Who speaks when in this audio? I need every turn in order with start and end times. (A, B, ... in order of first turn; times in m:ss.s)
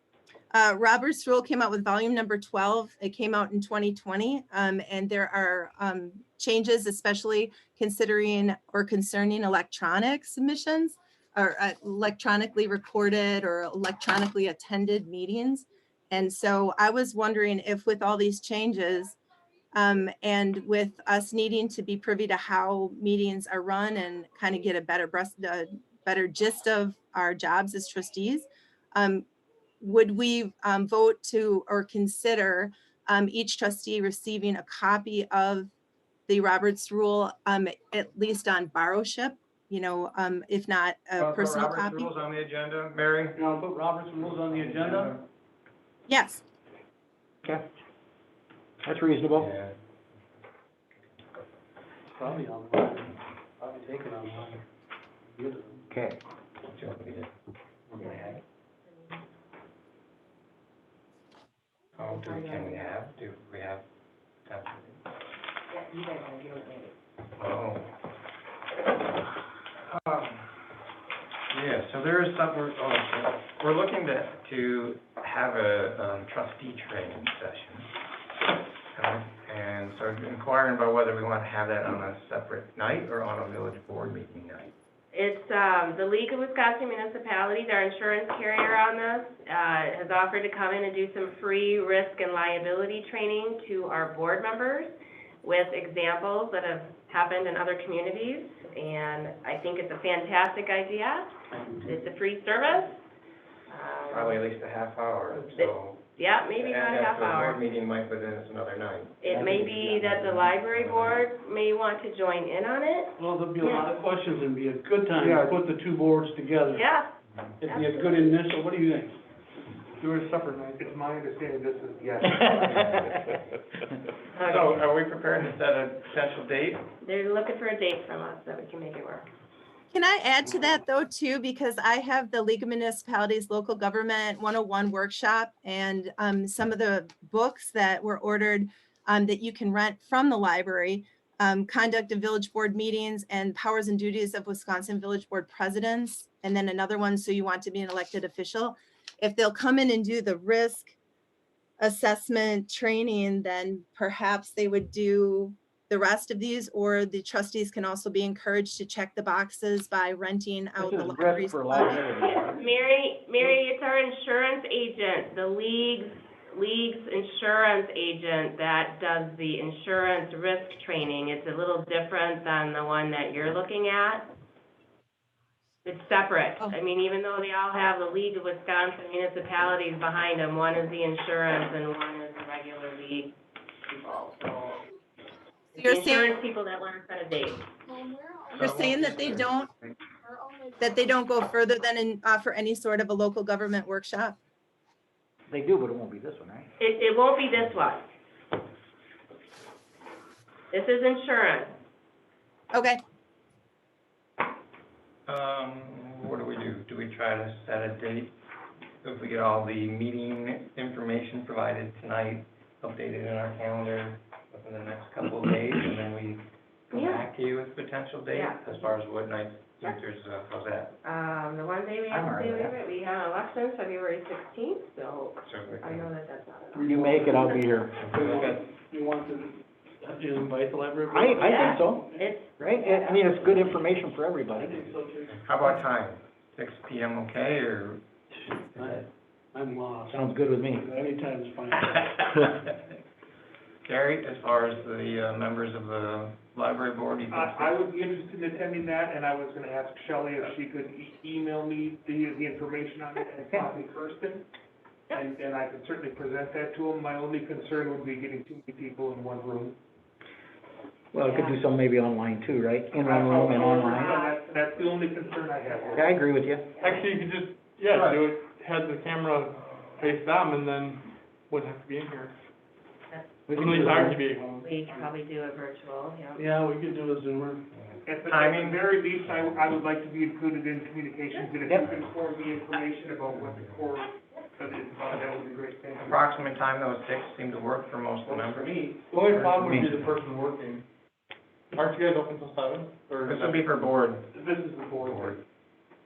0:00.5-0:19.2 A
0:19.7-0:29.2 A
0:29.8-0:35.7 A
0:36.3-0:42.1 A
0:41.2-0:43.4 B
0:43.4-0:45.2 C
0:44.2-0:45.2 B
0:46.1-0:46.4 A
0:48.8-0:49.5 D
0:49.3-0:49.7 B
0:52.1-0:54.6 C
0:55.2-0:55.8 C
0:55.9-0:56.2 D
0:56.7-0:57.3 B
0:58.0-0:59.2 E
1:02.0-1:03.8 B
1:02.0-1:02.9 E
1:04.5-1:05.0 B
1:05.7-1:06.9 E
1:07.4-1:07.9 B
1:09.9-1:10.4 B
1:11.5-1:17.9 B
1:18.9-1:24.7 B
1:25.1-1:34.9 E
1:35.4-1:43.0 E
1:43.7-1:44.4 E
1:44.1-1:46.0 B
1:45.3-1:47.6 E
1:46.6-1:51.2 B
1:49.2-1:53.9 E
1:53.2-1:56.8 C
1:55.2-1:55.5 F
1:56.7-1:57.1 E
1:57.6-1:59.2 C
1:57.6-1:58.3 E
2:00.0-2:01.0 F
2:00.8-2:02.7 G
2:02.7-2:03.1 B
2:04.3-2:04.8 E
2:04.4-2:06.8 B
2:07.0-2:09.3 E
2:09.9-2:31.0 A
2:31.8-2:42.1 A
2:40.8-2:42.6 D
2:42.4-2:54.3 E
2:55.8-3:03.3 E
3:03.8-3:04.8 E
3:05.7-3:06.3 A
3:05.7-3:07.6 E
3:08.5-3:09.7 A
3:08.6-3:09.5 B
3:10.8-3:14.4 A
3:15.5-3:16.7 D
3:16.8-3:18.0 E
3:20.7-3:21.7 E
3:22.7-3:23.0 A
3:25.3-3:28.3 B
3:29.0-3:40.9 B
3:36.9-3:37.2 E
3:38.3-3:38.9 E
3:41.0-3:47.6 E
3:42.1-3:42.7 D
3:45.4-3:46.0 B
3:46.8-3:52.3 C
3:46.8-3:48.1 D
3:48.0-3:48.6 B
3:51.1-3:52.0 D
3:51.4-3:53.8 E
3:52.6-3:54.8 D
3:54.6-3:55.8 C
3:55.3-3:58.0 B
3:58.7-3:59.0 B
3:58.7-4:02.6 C
4:00.1-4:00.9 D
4:03.8-4:07.8 B
4:07.3-4:14.4 G
4:15.2-4:19.8 G
4:21.1-4:24.1 D
4:21.2-4:21.6 E
4:23.0-4:26.0 G
4:23.4-4:26.1 E
4:26.0-4:26.7 D
4:26.7-4:27.1 E
4:26.8-4:32.3 F
4:27.9-4:28.2 B
4:33.1-4:36.4 E
4:33.5-4:34.2 D
4:33.5-4:34.7 F
4:36.4-4:37.6 C
4:37.7-4:38.8 B
4:38.0-4:46.2 G
4:41.8-4:42.1 B
4:43.3-4:43.8 B
4:46.0-4:48.7 B
4:48.3-4:50.8 F
4:49.1-4:49.4 C
4:49.6-4:49.9 D
4:51.7-4:53.6 F
4:53.2-4:54.3 B
4:54.4-4:55.3 F
4:54.9-4:55.4 B